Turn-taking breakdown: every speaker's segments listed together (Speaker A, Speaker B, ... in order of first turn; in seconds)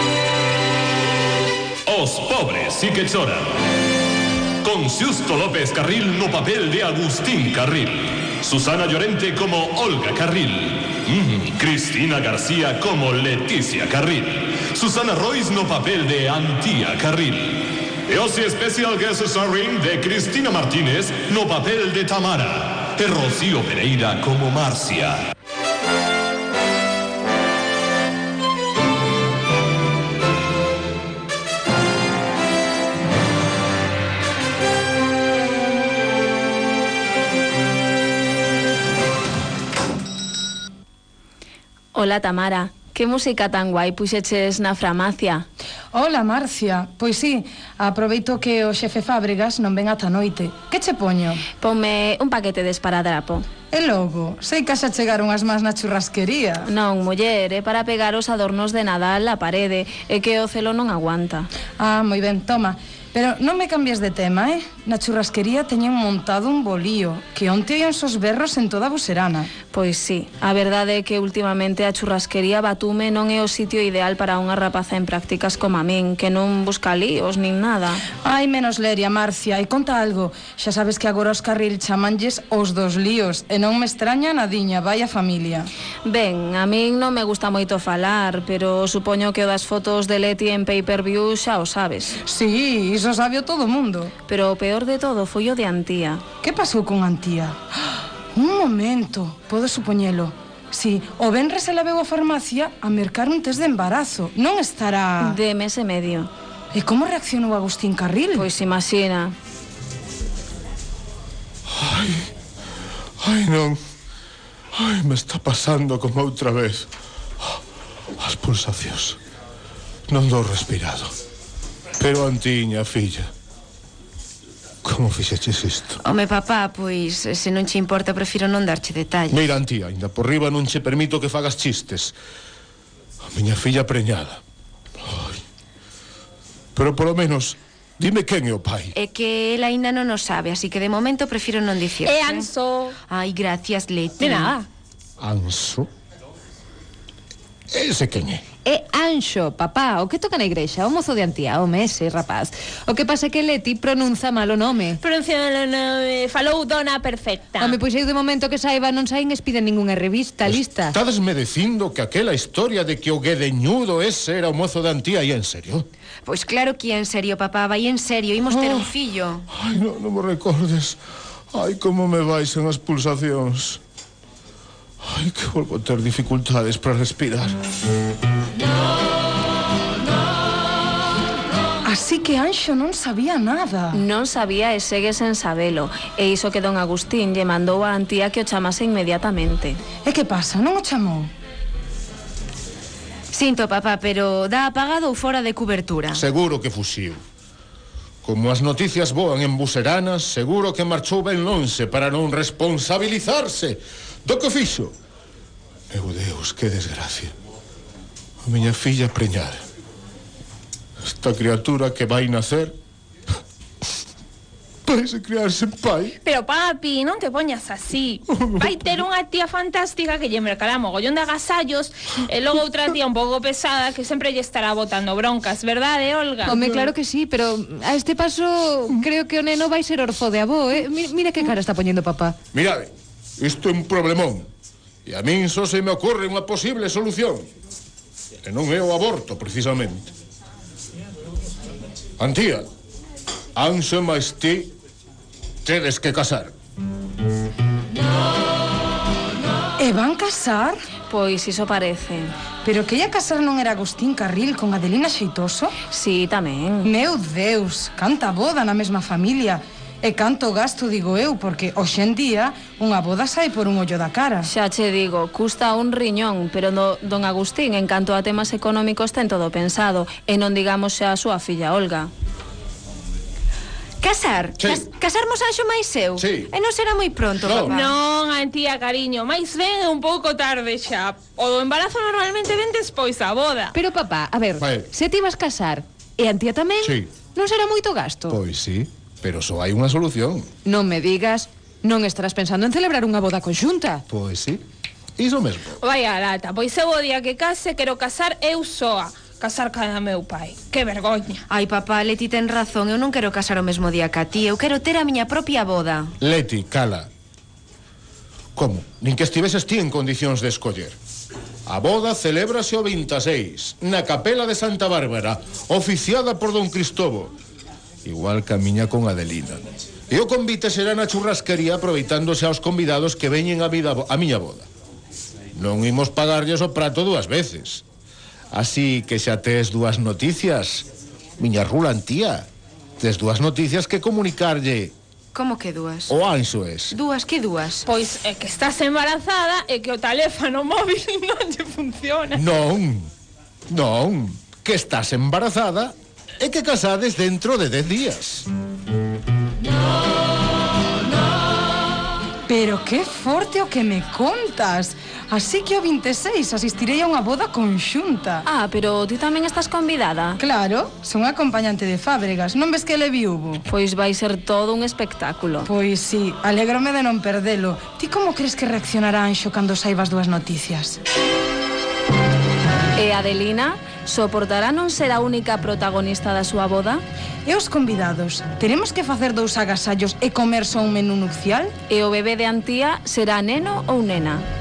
Speaker A: 1.9-3.5, 4.6-25.3
Speaker B: 41.9-45.5, 51.6-53.5, 56.6-61.5, 69.7-78.0, 86.0-92.2, 94.3-96.2, 105.2-106.3, 108.3-109.3, 183.9-189.8, 251.1-252.3, 255.9-256.9, 264.4-272.1, 358.4-360.4, 363.7-365.7, 373.0-377.0, 381.9-384.4
Speaker C: 45.9-51.4, 53.7-56.7, 61.8-69.5, 78.2-85.7, 92.3-94.1, 96.4-105.4, 106.7-108.5, 181.8-184.0, 190.1-191.3, 249.8-250.8, 252.6-255.7, 256.8-264.5, 352.5-358.4, 360.4-363.6, 365.7-371.0, 377.4-381.7
Speaker D: 111.7-112.3, 113.2-113.8, 114.8-116.9, 118.2-119.2, 120.1-121.1, 122.0-123.3, 124.8-126.0, 129.3-132.2, 133.3-134.4, 135.0-135.4, 136.8-138.9, 145.2-145.9, 147.7-148.4, 160.4-165.9, 168.5-168.9, 169.5-171.0, 171.5-173.8, 175.0-177.6, 196.1-197.2, 198.2-204.9, 205.9-207.3, 208.4-209.6, 211.1-212.8, 214.8-216.2, 218.3-218.8, 226.4-226.9, 232.5-234.5, 235.1-237.5, 238.4-240.1, 242.2-242.7, 243.6-244.8, 245.7-246.5, 274.6-274.9, 276.2-276.5, 277.4-277.7, 284.6-284.9, 286.8-287.1, 288.3-290.5, 294.1-294.6, 295.2-295.8, 306.2-307.1, 308.6-311.0, 311.7-317.4, 318.0-324.7, 325.6-327.8, 328.5-330.9, 331.4-332.5, 333.0-334.9, 336.1-337.0, 342.3-343.1, 343.7-348.5
Speaker E: 126.0-129.4, 138.9-142.5, 143.1-144.5, 166.2-169.4, 193.3-196.2, 274.0-277.9, 301.5-306.1, 335.3-336.1, 336.9-337.9
Speaker F: 142.1-143.0, 144.2-144.7, 155.0-157.8, 216.2-226.6, 277.7-283.8, 295.8-301.4, 337.9-342.4
Speaker G: 148.7-155.0, 157.6-161.0, 226.4-232.4, 283.7-288.4, 290.6-294.0